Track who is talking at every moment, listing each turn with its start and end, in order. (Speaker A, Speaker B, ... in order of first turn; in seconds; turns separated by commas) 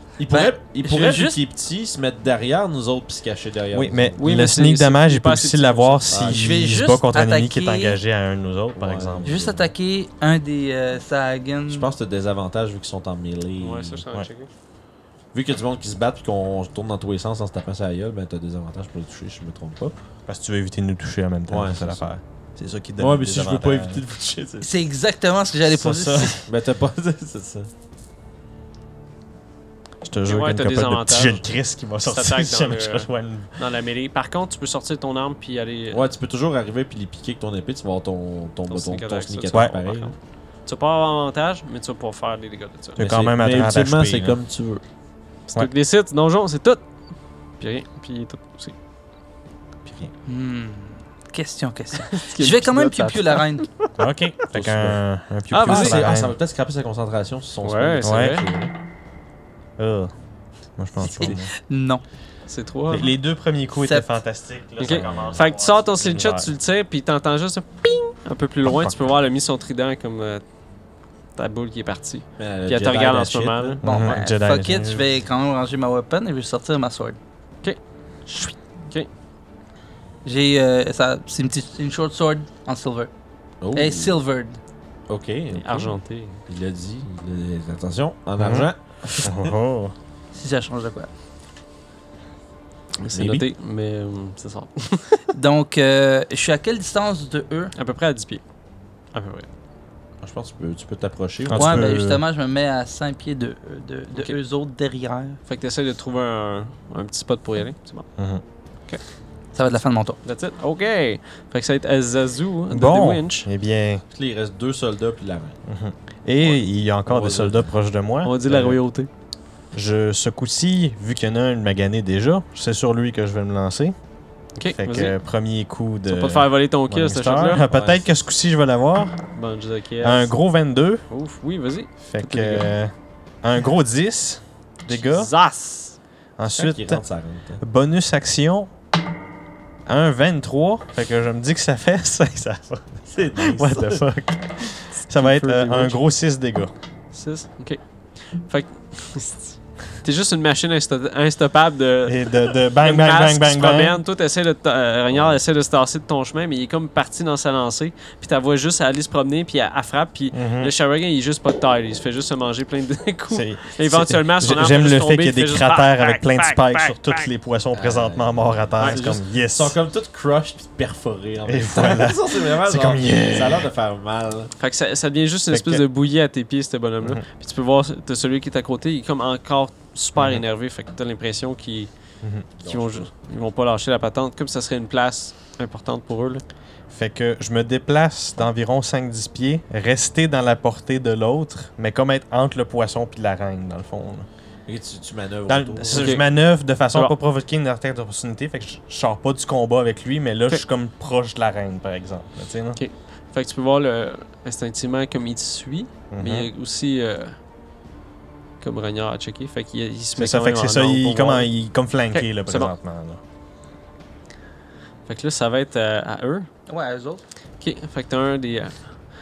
Speaker A: 0.1-4.2, Speaker B: 0.3-1.4, Speaker C: 3.7-9.4, Speaker D: 4.2-6.1, Speaker A: 6.1-6.5, Speaker B: 6.3-8.0, Speaker A: 8.7-9.7, Speaker B: 9.2-11.9, Speaker A: 11.7-14.0, Speaker D: 13.6-14.5, Speaker A: 15.3-19.9, Speaker C: 20.3-24.0, Speaker A: 21.5-22.1, Speaker A: 23.0-24.7, Speaker B: 24.6-26.4, Speaker C: 25.7-26.3, Speaker A: 26.4-27.7, Speaker C: 30.0-33.5, Speaker D: 30.3-31.5, Speaker D: 32.0-36.1, Speaker A: 35.9-40.1, Speaker D: 38.7-43.0, Speaker C: 43.0-44.4, Speaker A: 43.0-44.8, Speaker D: 45.5-46.8, Speaker D: 47.6-48.7, Speaker C: 49.9-50.1, Speaker B: 50.3-53.7, Speaker D: 52.0-53.5, Speaker C: 54.0-56.3, Speaker A: 54.5-55.0, Speaker D: 55.5-56.0, Speaker A: 55.6-58.7, Speaker D: 57.6-58.4, Speaker C: 58.0-58.4, Speaker C: 59.8-60.1, Speaker C: 60.8-61.5, Speaker A: 61.0-61.4, Speaker B: 61.2-62.0, Speaker D: 62.5-63.1, Speaker C: 62.9-66.5, Speaker B: 63.8-64.1, Speaker D: 64.8-70.4, Speaker A: 64.8-65.4, Speaker C: 68.6-69.0, Speaker D: 71.3-73.8, Speaker A: 72.4-74.1, Speaker C: 73.8-75.0, Speaker B: 73.8-77.2, Speaker D: 77.6-79.1, Speaker B: 80.2-83.1, Speaker A: 83.6-84.2, Speaker B: 83.7-84.6, Speaker A: 85.1-85.9, Speaker D: 85.5-86.4, Speaker A: 86.5-89.5, Speaker C: 88.4-89.9, Speaker B: 90.3-91.1, Speaker D: 93.0-95.2, Speaker A: 93.1-93.4, Speaker B: 95.3-97.7, Speaker D: 97.7-98.4, Speaker D: 99.1-99.5, Speaker A: 100.2-102.0, Speaker C: 101.5-102.2, Speaker B: 101.5-105.4, Speaker D: 105.5-108.1, Speaker C: 108.2-108.4, Speaker B: 109.5-110.2, Speaker D: 110.2-113.5, Speaker C: 112.7-114.0, Speaker A: 114.1-115.6, Speaker C: 115.7-118.8, Speaker A: 117.0-117.7, Speaker D: 118.2-119.1, Speaker C: 119.7-123.9, Speaker D: 124.5-125.2, Speaker C: 124.7-129.2, Speaker D: 126.1-127.6, Speaker A: 127.6-128.0, Speaker D: 129.3-130.3, Speaker C: 130.0-131.0, Speaker D: 131.1-132.7, Speaker C: 132.0-135.3, Speaker D: 134.9-136.0, Speaker C: 136.4-137.0, Speaker A: 136.5-137.6, Speaker C: 137.6-138.7, Speaker C: 139.8-146.7, Speaker A: 143.1-144.0, Speaker D: 145.0-146.0, Speaker D: 147.1-167.3, Speaker C: 152.1-154.0, Speaker C: 160.3-160.7, Speaker C: 163.3-169.8, Speaker A: 167.7-174.5, Speaker C: 171.4-173.7, Speaker D: 174.6-181.9, Speaker C: 175.5-175.8, Speaker C: 180.2-180.4, Speaker A: 182.6-183.1, Speaker D: 182.6-186.4, Speaker C: 186.9-194.3, Speaker A: 194.7-196.1, Speaker C: 195.5-202.8, Speaker D: 195.9-196.2, Speaker D: 202.7-207.4, Speaker C: 206.1-206.5, Speaker D: 208.6-211.5, Speaker C: 210.1-213.2, Speaker D: 212.1-212.7, Speaker D: 215.1-216.5, Speaker B: 216.7-217.2, Speaker D: 217.6-218.8